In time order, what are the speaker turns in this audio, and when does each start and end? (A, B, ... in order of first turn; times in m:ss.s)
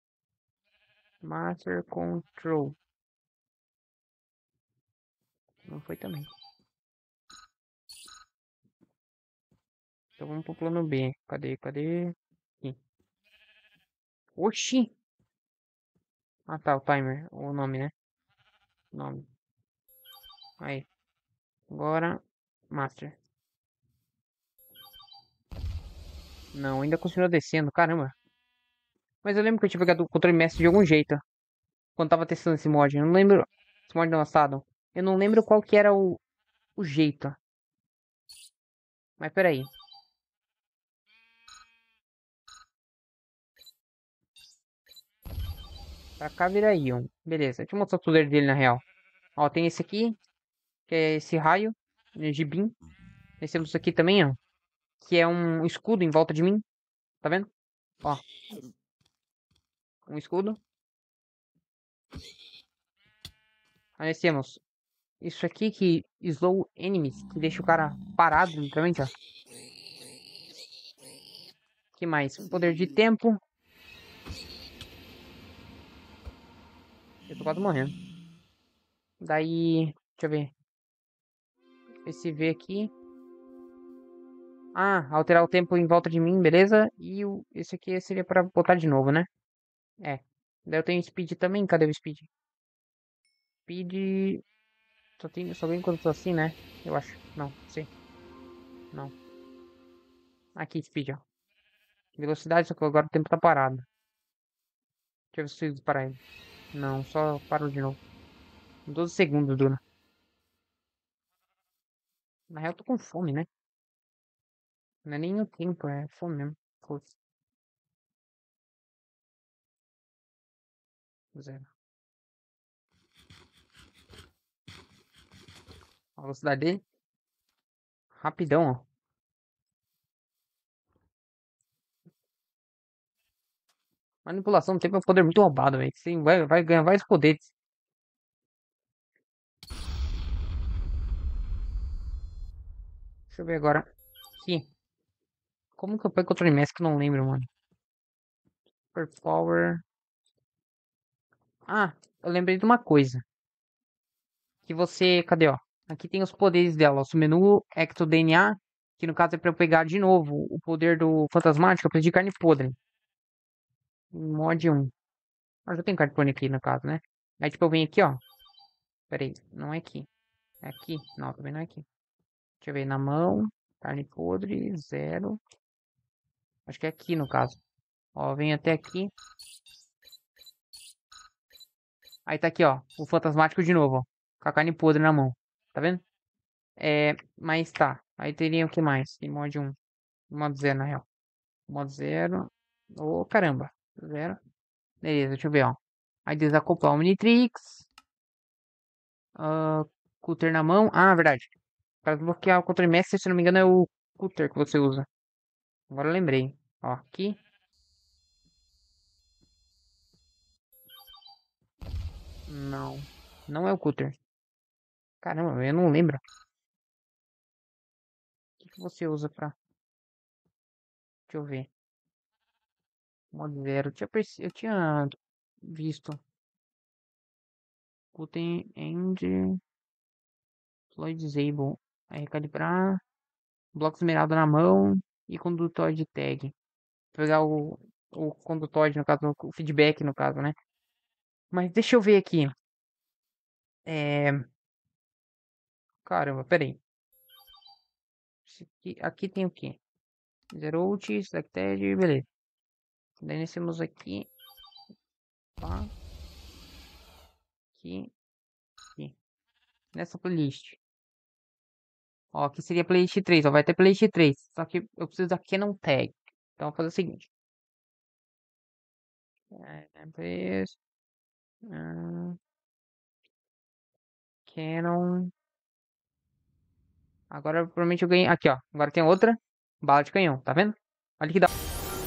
0:01.2-0:02.8 A
0:05.6-0:06.3 A
0:10.2-0:12.8 A
0:14.4-0:14.9 A
0:16.5-0:17.9 A
0:18.9-0:19.3 A
0:20.6-0:20.9 A
0:21.7-0:23.2 A
0:26.5-0:28.1 A
0:29.2-0:31.2 A
0:32.0-0:36.2 A
0:36.8-0:37.4 A
0:39.2-0:39.7 A
0:46.2-0:48.8 A
0:49.4-0:50.2 A
0:50.9-0:52.7 A
0:53.4-0:54.4 A
0:55.0-0:56.6 A
0:57.2-0:57.5 A
1:00.0-1:00.6 A
1:04.0-1:04.6 A
1:05.2-1:09.1 A
1:12.0-1:13.4 A
1:17.3-1:17.9 A
1:19.2-1:20.5 A
1:22.0-1:22.9 A
1:24.7-1:29.3 A
1:30.0-1:32.3 A
1:33.7-1:34.4 A
1:35.2-1:37.9 A
1:40.6-1:41.2 A
1:42.2-1:43.8 A
1:45.3-1:46.2 A
1:46.7-1:48.0 A
1:48.8-1:49.8 A
1:52.5-1:53.5 A
1:55.0-1:57.1 A
2:01.3-2:01.7 A
2:06.2-2:06.8 A
2:08.1-2:08.8 A
2:14.2-2:17.5 A
2:23.3-2:23.8 A
2:24.4-2:24.7 A
2:25.8-2:27.5 A
2:28.9-2:29.8 A
2:31.7-2:33.2 A
2:34.6-2:42.8 A
2:44.1-2:44.9 A
2:45.7-2:48.2 A
2:49.1-2:50.1 A
2:50.6-2:51.8 A
2:52.6-2:55.4 A
2:56.7-2:57.6 A
2:58.1-2:59.1 A
3:02.2-3:06.0 A
3:06.8-3:09.8 A
3:10.3-3:11.0 A
3:11.7-3:14.4 A
3:15.0-3:17.9 A
3:19.4-3:21.5 A
3:22.0-3:25.1 A
3:25.9-3:27.4 A
3:32.5-3:34.1 A
3:35.2-3:36.2 A
3:38.6-3:39.5 A
3:41.3-3:41.7 A
3:43.3-3:46.2 A
3:48.1-3:49.6 A
3:50.9-3:53.0 A
3:53.7-3:56.5 A
3:57.1-4:00.5 A
4:01.5-4:02.5 A
4:03.8-4:04.4 A
4:06.0-4:06.8 A
4:08.4-4:09.8 A
4:10.5-4:12.3 A
4:13.2-4:14.3 A
4:15.6-4:15.9 A
4:17.7-4:18.1 A
4:19.9-4:20.8 A
4:22.3-4:27.3 A
4:29.5-4:30.8 A
4:31.6-4:32.4 A
4:34.4-4:35.3 A
4:37.3-4:41.5 A